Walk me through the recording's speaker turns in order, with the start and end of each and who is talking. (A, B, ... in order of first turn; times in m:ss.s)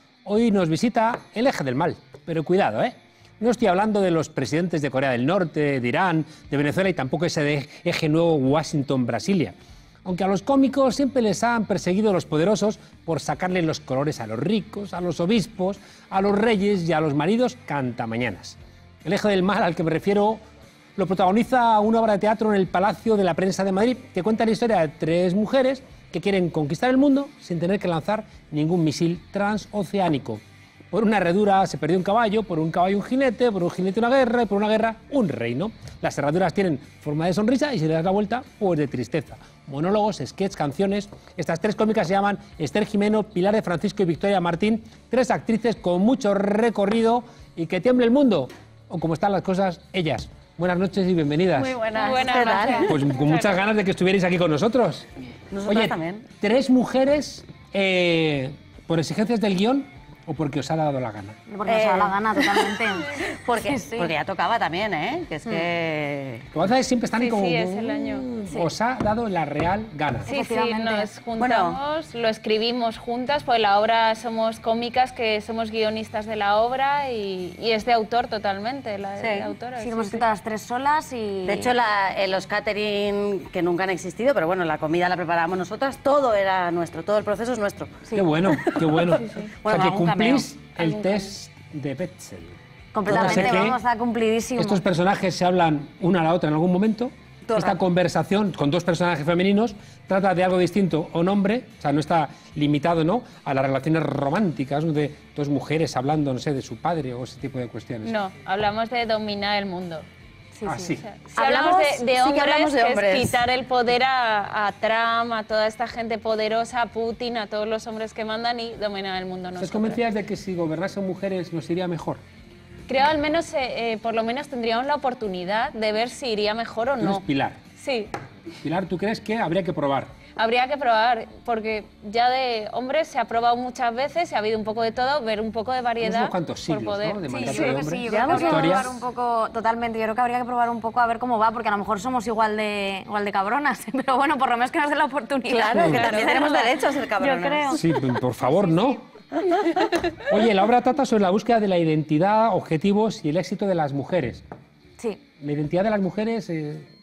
0:00.2-0:20.4 A
0:21.0-0:51.7 A
0:51.6-0:52.9 B
0:51.9-0:53.6 C
0:52.9-0:55.1 A
0:55.5-0:56.3 B
0:55.7-1:01.4 A
1:01.5-1:04.1 D
1:01.7-1:06.5 B
1:06.5-1:10.3 A
1:07.1-1:08.3 C
1:10.3-1:20.2 C
1:10.3-1:11.1 D
1:11.4-1:11.8 B
1:19.2-1:19.5 B
1:19.8-1:21.7 D
1:21.5-1:30.5 B
1:28.1-1:32.6 A
1:29.1-1:29.6 C
1:30.8-1:31.3 C
1:32.9-1:34.8 D
1:33.1-1:33.8 B
1:33.1-1:33.8 A
1:34.6-1:48.1 A
1:37.5-1:37.8 B
1:48.0-1:50.0 C
1:50.6-1:50.8 D
1:50.6-1:51.0 A
1:50.9-2:00.0 C
1:51.3-1:53.4 B
1:59.6-2:02.2 A
2:02.9-2:07.2 C
2:07.0-2:07.6 A
2:07.8-2:08.1 C
2:08.6-2:10.1 A
2:10.4-2:18.8 C
2:16.0-2:19.0 A
2:17.3-2:27.8 D
2:18.0-2:18.9 B
2:25.5-2:27.9 B
2:25.7-2:26.0 A
2:26.0-2:26.5 C
2:27.8-2:29.0 A
2:28.4-2:29.0 D
2:29.4-2:30.0 B
2:30.3-2:34.4 A
2:35.0-2:35.2 D
2:35.4-2:36.9 A